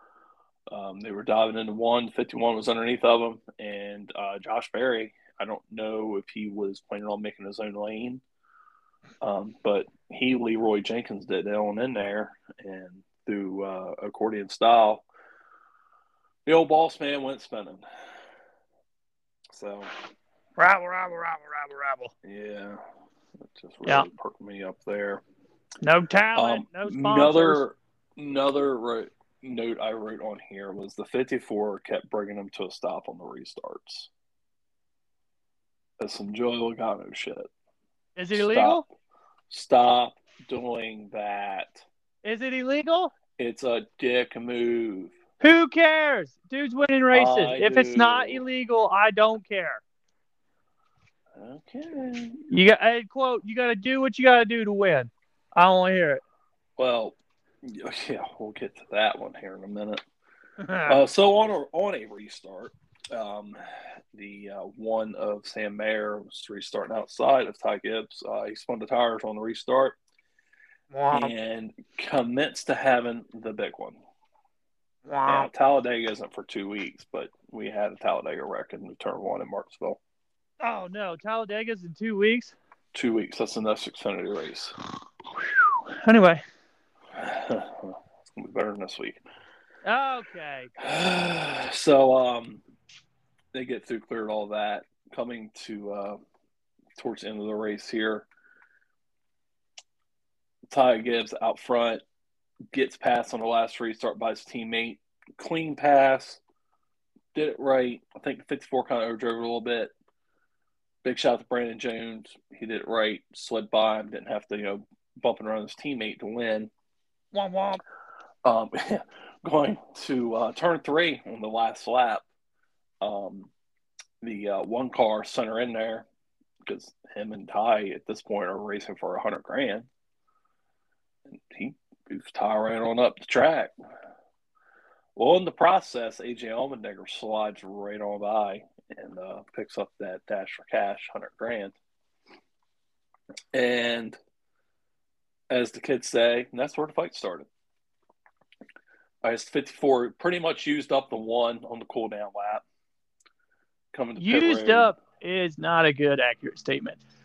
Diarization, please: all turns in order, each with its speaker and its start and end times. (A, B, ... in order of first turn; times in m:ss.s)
0:00.7-0:08.2 A
0:09.2-0:15.0 A
0:16.4-0:17.8 A
0:19.5-0:19.9 A
0:20.6-0:22.1 B
0:22.2-0:22.8 A
0:23.5-0:25.2 A
0:25.8-0:27.6 B
0:26.3-0:34.1 A
0:36.0-0:37.5 A
0:38.2-0:38.8 B
0:38.3-0:38.8 A
0:39.5-0:41.8 A
0:42.2-0:43.1 B
0:43.4-0:45.1 A
0:45.4-0:49.8 B
0:47.1-0:48.4 A
0:51.4-0:52.4 A
0:52.5-0:56.2 B
0:56.8-1:00.0 A
1:00.6-1:01.0 B
1:00.8-1:10.0 A
1:10.9-1:11.3 B
1:11.1-1:14.0 A
1:15.1-1:15.5 B
1:15.2-1:20.0 A
1:20.6-1:22.6 B
1:22.9-1:24.7 A
1:25.4-1:26.4 B
1:27.1-1:29.2 A
1:29.8-1:30.7 B
1:30.8-1:32.6 A
1:33.5-1:36.2 A
1:37.0-1:38.3 A
1:40.7-1:42.0 A
1:42.7-1:46.4 A
1:47.3-1:49.9 A
1:51.0-1:56.7 A
1:57.3-1:57.8 B
1:58.4-2:02.2 A
2:03.0-2:03.5 A
2:04.2-2:06.0 A
2:06.6-2:09.9 A
2:11.2-2:13.7 A
2:15.2-2:21.8 A
2:23.5-2:24.2 A
2:25.5-2:27.5 A
2:29.2-2:32.6 A
2:33.9-2:35.0 A
2:34.2-2:37.0 B